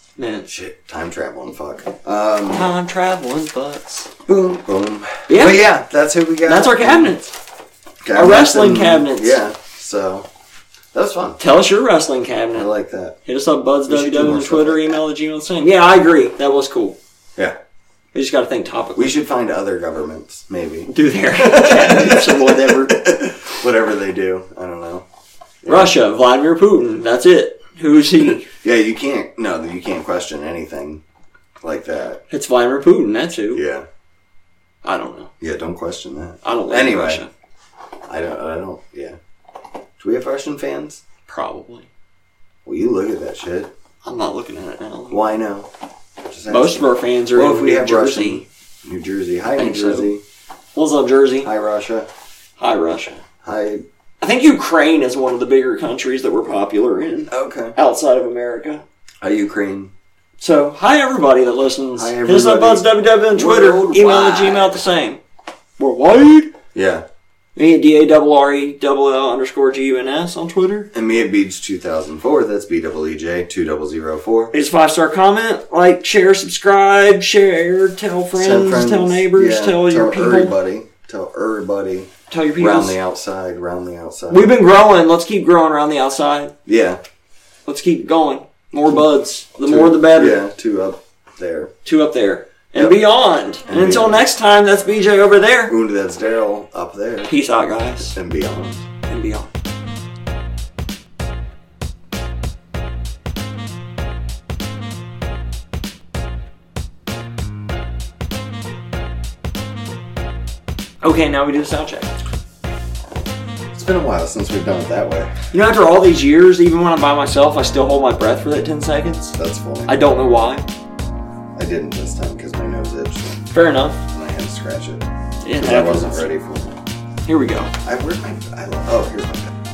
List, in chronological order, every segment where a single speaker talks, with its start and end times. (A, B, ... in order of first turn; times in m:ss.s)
0:00.2-0:00.5 A
0:00.5-0:02.6 B
0:02.5-0:04.1 A
0:04.2-0:07.1 B
0:05.3-0:05.6 A
0:06.4-0:07.3 A
0:08.0-0:10.2 B
0:08.1-0:09.4 A
0:10.9-0:11.4 B
0:11.4-0:12.7 A
0:12.5-0:13.2 B
0:13.2-0:17.0 A
0:13.9-0:15.0 B
0:18.1-0:19.1 A
0:19.0-0:25.0 B
0:20.9-0:23.0 A
0:25.6-0:25.9 B
0:25.6-0:28.5 A
0:28.5-0:31.0 B
0:31.6-0:32.2 B
0:32.3-0:33.6 A
0:33.5-0:33.8 B
0:34.8-0:35.3 A
0:35.4-0:37.2 B
0:36.4-0:37.3 A
0:38.1-0:39.2 B
0:40.0-0:41.0 B
0:41.3-0:41.9 A
0:42.6-0:43.7 B
0:44.0-0:45.4 A
0:45.1-0:45.7 B
0:46.2-0:50.2 B
0:46.5-0:48.4 A
0:49.6-0:50.1 A
0:50.7-0:51.5 A
0:51.4-0:52.1 B
0:52.6-0:53.2 A
0:53.4-0:53.8 B
0:54.2-0:58.8 A
0:57.3-0:57.8 B
0:59.2-0:59.9 B
1:00.4-1:05.2 A
1:02.0-1:04.8 B
1:05.8-1:06.5 A
1:06.7-1:07.0 B
1:07.6-1:10.9 A
1:10.9-1:14.5 B
1:14.5-1:20.5 A
1:18.3-1:24.5 B
1:22.3-1:23.0 A
1:24.3-1:26.5 A
1:26.6-1:27.0 B
1:27.6-1:30.4 A
1:29.6-1:31.7 B
1:31.8-1:35.7 A
1:33.7-1:34.2 B
1:35.7-1:37.3 B
1:37.3-1:38.1 A
1:38.1-1:38.8 B
1:39.0-1:39.5 A
1:51.0-1:52.1 A
1:53.7-1:55.3 B
1:55.5-2:00.6 A
1:59.4-1:59.9 B
2:01.6-2:03.5 B
2:03.5-2:04.0 A
2:04.1-2:06.8 B
2:05.4-2:06.3 A
2:07.3-2:07.7 A
2:07.8-2:09.5 B